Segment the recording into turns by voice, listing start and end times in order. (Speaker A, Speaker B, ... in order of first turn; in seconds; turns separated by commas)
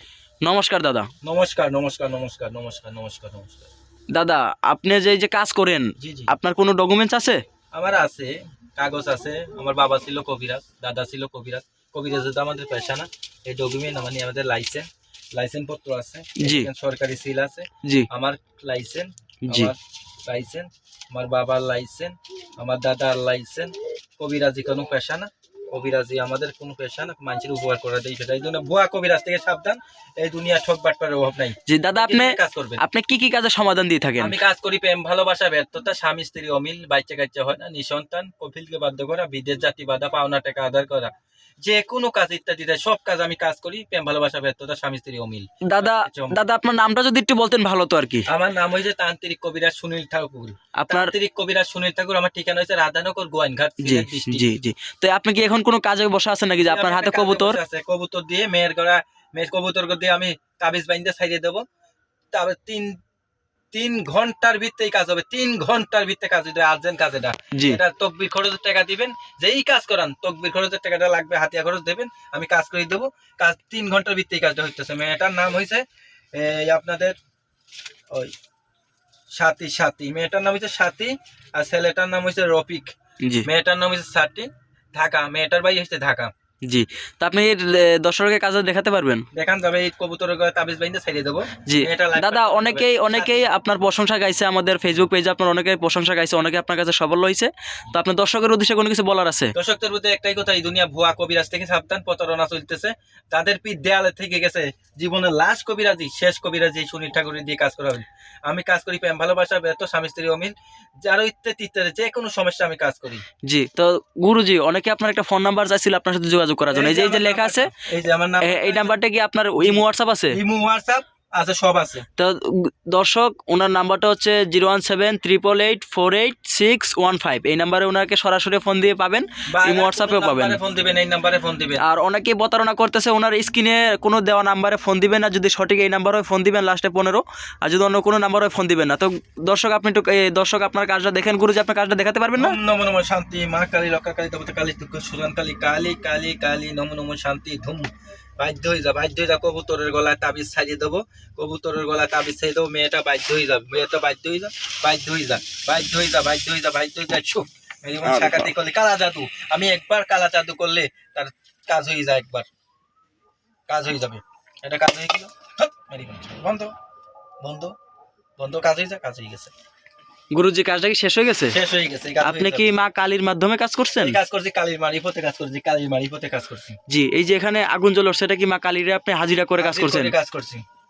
Speaker A: 0.4-1.1, Speaker B: 1.2-3.7, Speaker A: 4.1-7.4, Speaker B: 6.0-6.3, Speaker B: 7.7-32.8, Speaker A: 16.4-16.7, Speaker A: 31.6-34.4, Speaker B: 34.2-41.1, Speaker B: 41.6-46.4, Speaker A: 45.6-48.3, Speaker B: 48.3-54.6, Speaker A: 50.8-51.1, Speaker A: 53.8-57.6, Speaker B: 56.6-61.6, Speaker B: 62.3-62.9, Speaker B: 63.7-75.8, Speaker A: 67.5-67.8, Speaker B: 76.3-77.1, Speaker B: 79.3-82.9, Speaker B: 83.4-86.3, Speaker A: 86.7-89.2, Speaker B: 89.3-93.5, Speaker A: 91.7-99.5, Speaker B: 99.5-110.5, Speaker B: 111.0-113.2, Speaker A: 113.4-117.7, Speaker B: 116.7-119.0, Speaker A: 118.4-120.4, Speaker B: 119.6-122.0, Speaker A: 122.2-130.6, Speaker B: 129.5-131.8, Speaker A: 131.8-142.5, Speaker B: 142.3-162.5, Speaker A: 158.0-158.4, Speaker B: 163.7-166.7, Speaker B: 167.4-167.7, Speaker B: 168.4-169.5, Speaker A: 170.3-171.6, Speaker B: 171.5-172.7, Speaker A: 172.2-174.2, Speaker B: 174.0-176.8, Speaker A: 176.9-180.1, Speaker B: 179.6-180.6